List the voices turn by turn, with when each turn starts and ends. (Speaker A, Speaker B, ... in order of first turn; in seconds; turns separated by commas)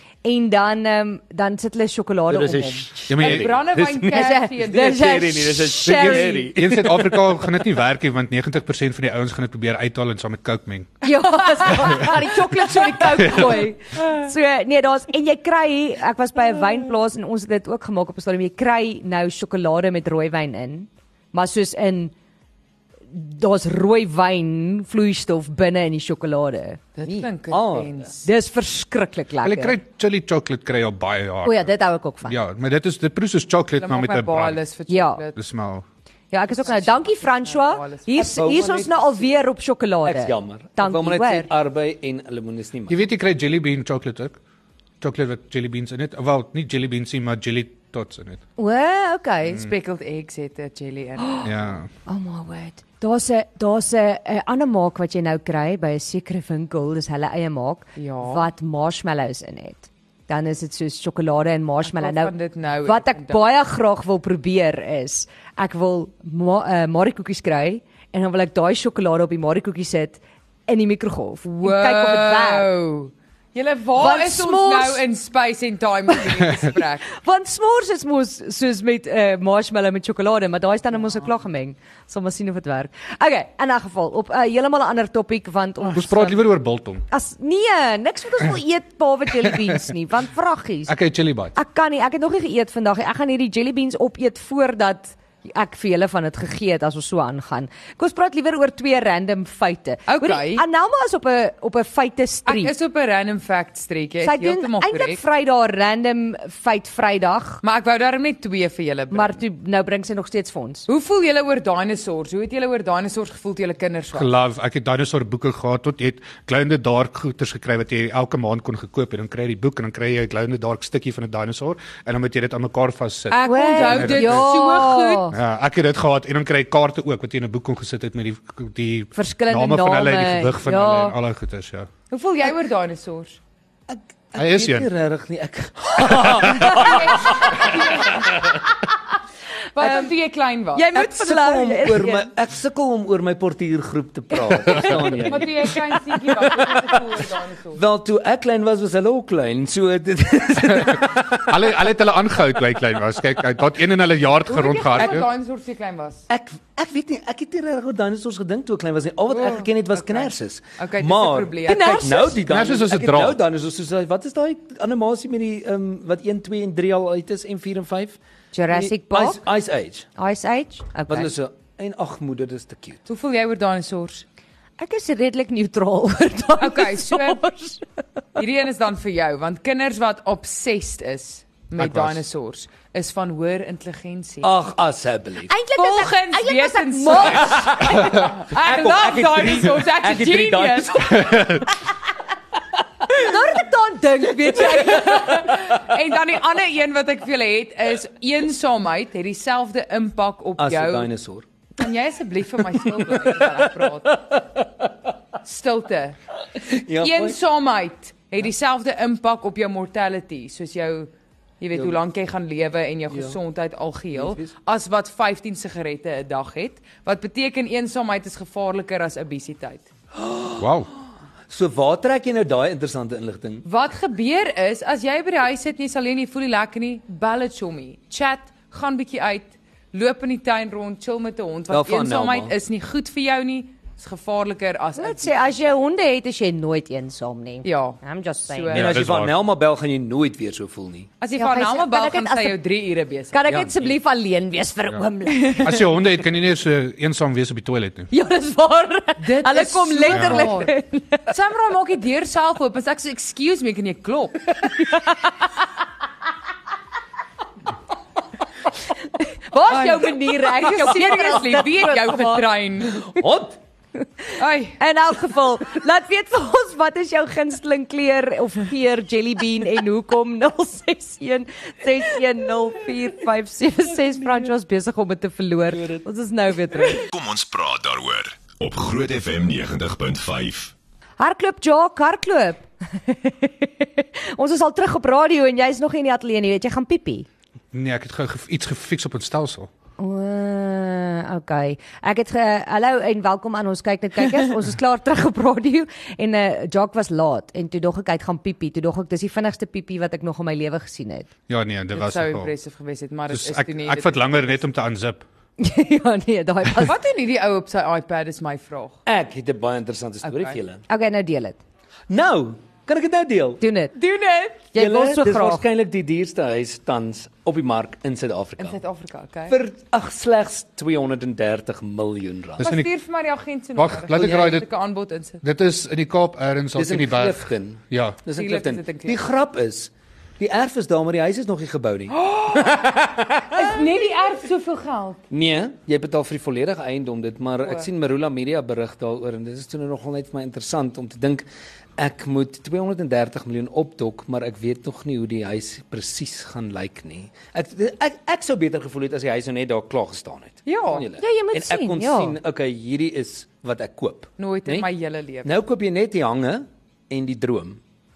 Speaker A: 0.2-2.9, Speaker B: 2.3-7.4, Speaker C: 3.1-3.6, Speaker D: 3.1-5.1, Speaker A: 4.1-6.5, Speaker C: 5.8-11.0, Speaker A: 11.0-22.1, Speaker D: 11.6-13.3, Speaker C: 13.2-13.6, Speaker A: 23.1-26.8, Speaker D: 26.9-28.2, Speaker B: 27.0-28.0, Speaker A: 28.2-29.8, Speaker C: 29.4-31.7, Speaker A: 31.4-32.4, Speaker C: 32.2-34.6, Speaker D: 33.8-35.4, Speaker A: 34.9-35.2, Speaker C: 35.3-35.8, Speaker A: 36.3-41.5, Speaker D: 36.5-38.1, Speaker B: 38.1-39.3, Speaker B: 40.0-43.0, Speaker C: 42.9-44.4, Speaker C: 45.0-48.4, Speaker A: 48.6-49.6, Speaker D: 49.4-51.5, Speaker C: 51.4-51.9, Speaker A: 52.0-62.3, Speaker D: 58.0-58.5, Speaker D: 61.9-63.4, Speaker A: 62.8-72.7, Speaker D: 71.6-77.1, Speaker A: 74.0-75.0, Speaker A: 77.1-86.4, Speaker C: 85.9-87.0, Speaker A: 87.1-90.9, Speaker C: 90.9-91.5, Speaker A: 91.5-102.7, Speaker D: 100.1-100.6, Speaker D: 102.5-105.2, Speaker A: 104.2-107.6, Speaker D: 107.6-109.4, Speaker A: 109.1-110.9, Speaker D: 110.9-114.3, Speaker C: 114.1-124.5, Speaker D: 123.3-125.3, Speaker A: 123.4-125.3, Speaker C: 125.3-131.9, Speaker A: 129.1-131.2, Speaker D: 132.1-133.4, Speaker B: 133.9-138.2, Speaker C: 134.3-134.9, Speaker C: 136.3-136.8, Speaker D: 136.5-138.4, Speaker D: 139.7-140.9, Speaker A: 139.8-140.1, Speaker A: 140.7-142.3, Speaker B: 140.9-145.7, Speaker A: 144.7-145.1, Speaker D: 145.2-147.8, Speaker B: 146.5-147.0, Speaker B: 147.7-151.4, Speaker C: 150.7-155.2, Speaker D: 154.5-156.2, Speaker B: 156.3-168.2, Speaker D: 159.3-162.3, Speaker A: 161.6-162.4, Speaker C: 162.4-163.4, Speaker A: 168.5-169.4, Speaker B: 168.7-170.1, Speaker A: 170.2-171.3, Speaker B: 171.1-173.0, Speaker D: 173.1-174.2, Speaker A: 174.8-177.8, Speaker D: 176.6-177.4, Speaker D: 178.3-184.5, Speaker C: 181.8-182.2, Speaker B: 184.4-185.5, Speaker A: 185.5-187.7, Speaker D: 185.8-191.3, Speaker B: 187.1-191.6, Speaker C: 191.2-191.7, Speaker A: 193.2-195.2, Speaker D: 194.6-201.1, Speaker B: 200.6-201.4, Speaker D: 201.8-204.4, Speaker B: 202.9-203.4, Speaker D: 205.4-206.2, Speaker B: 206.6-207.4, Speaker D: 206.9-219.8, Speaker B: 211.7-212.0, Speaker B: 213.1-213.3, Speaker B: 214.1-214.5, Speaker B: 220.2-220.7, Speaker C: 220.6-220.9, Speaker B: 221.5-223.6, Speaker D: 223.6-235.4, Speaker B: 231.7-232.5, Speaker A: 235.0-238.8, Speaker D: 237.6-238.9, Speaker B: 238.7-241.1, Speaker C: 238.7-239.3, Speaker D: 241.2-243.4, Speaker A: 241.3-242.6, Speaker A: 243.3-245.9, Speaker B: 243.4-243.9, Speaker C: 245.6-248.1, Speaker A: 248.1-251.3, Speaker D: 249.2-250.7, Speaker C: 250.1-250.4, Speaker D: 251.3-254.6, Speaker A: 254.8-255.2, Speaker A: 259.1-262.4, Speaker D: 259.7-263.0, Speaker B: 262.9-263.6, Speaker D: 264.4-264.8, Speaker A: 264.8-277.1, Speaker E: 277.1-280.7, Speaker A: 281.2-287.3, Speaker C: 287.7-289.7, Speaker A: 290.0-301.3, Speaker C: 301.5-302.5, Speaker D: 301.9-304.6, Speaker C: 303.3-305.2, Speaker A: 305.6-306.9, Speaker D: 306.8-309.0, Speaker B: 309.1-310.8, Speaker D: 310.2-310.6, Speaker A: 310.9-311.6, Speaker B: 312.1-313.6, Speaker A: 313.6-313.9, Speaker D: 313.9-314.7, Speaker A: 314.7-315.6, Speaker B: 314.7-318.8, Speaker D: 318.6-319.6, Speaker B: 319.5-322.7, Speaker C: 322.6-322.9, Speaker D: 322.6-325.4, Speaker C: 323.8-324.7, Speaker C: 325.4-328.2, Speaker B: 326.7-333.7, Speaker D: 328.3-329.2, Speaker D: 332.1-335.2, Speaker B: 335.3-341.4, Speaker B: 342.0-354.9, Speaker D: 350.6-351.1, Speaker A: 351.2-352.4, Speaker D: 354.4-355.5, Speaker B: 355.4-357.8